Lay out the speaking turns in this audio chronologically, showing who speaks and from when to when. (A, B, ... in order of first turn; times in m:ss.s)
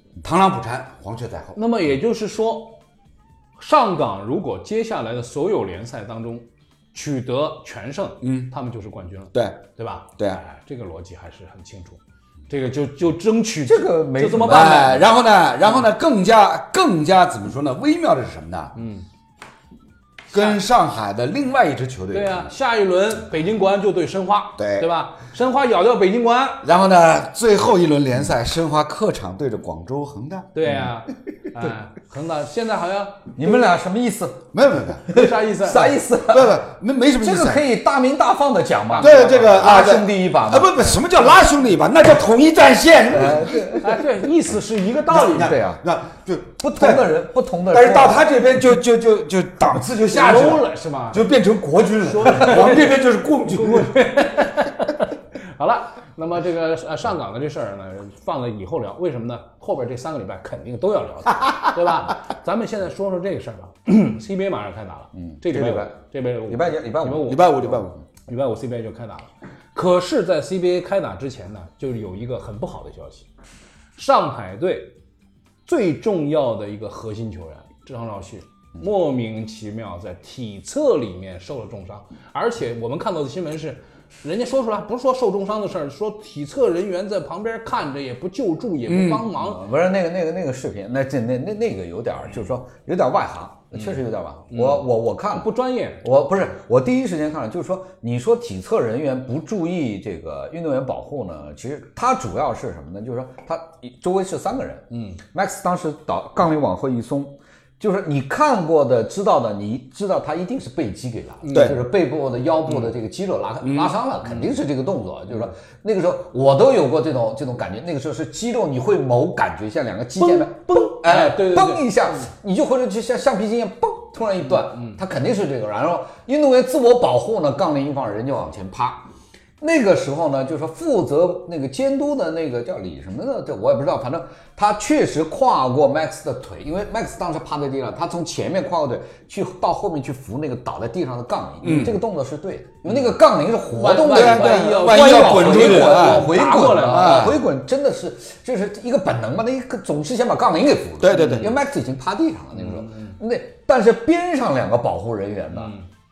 0:00.2-0:01.6 A
0:01.6-0:02.8 B
0:03.6-0:15.0 B
0:08.2-0:08.5 A
0:09.3-0:09.6 A
0:13.6-0:15.0 C
0:14.4-0:18.7 A
0:18.7-0:19.0 B
0:20.3-0:22.5 A
0:20.3-0:20.6 B
0:22.1-0:26.6 B
0:24.6-0:24.9 A
0:26.6-0:30.5 A
0:30.5-0:33.6 B
0:33.4-0:34.5 C
0:34.5-0:35.1 A
0:35.1-0:36.6 C
0:35.1-0:36.0 B
0:36.3-0:37.6 A
0:37.2-0:40.9 C
0:38.9-0:39.9 B
0:39.0-0:43.9 A
0:43.1-0:44.0 C
0:43.8-0:45.6 B
0:45.1-0:47.1 A
0:45.2-0:45.8 C
0:46.6-0:48.3 C
0:47.7-0:54.0 A
0:50.0-0:51.3 B
0:52.0-1:13.3 B
1:05.1-1:07.9 C
1:07.2-1:08.0 A
1:14.0-1:14.9 B
1:15.7-1:29.6 B
1:28.9-1:29.2 A
1:29.3-1:35.5 C
1:33.7-1:34.0 B
1:34.5-1:36.0 B
1:36.0-2:09.1 C
1:44.9-1:45.2 B
1:51.4-1:51.8 B
1:51.5-1:51.8 A
1:53.6-1:53.9 A
1:54.2-1:54.5 B
2:00.2-2:02.3 B
2:04.5-2:05.0 B
2:09.6-2:35.7 C
2:21.6-2:22.0 A
2:23.7-2:27.4 B
2:24.1-2:27.4 A
2:31.0-2:31.5 A
2:31.1-2:31.5 B
2:32.5-2:33.2 B
2:35.5-2:35.8 B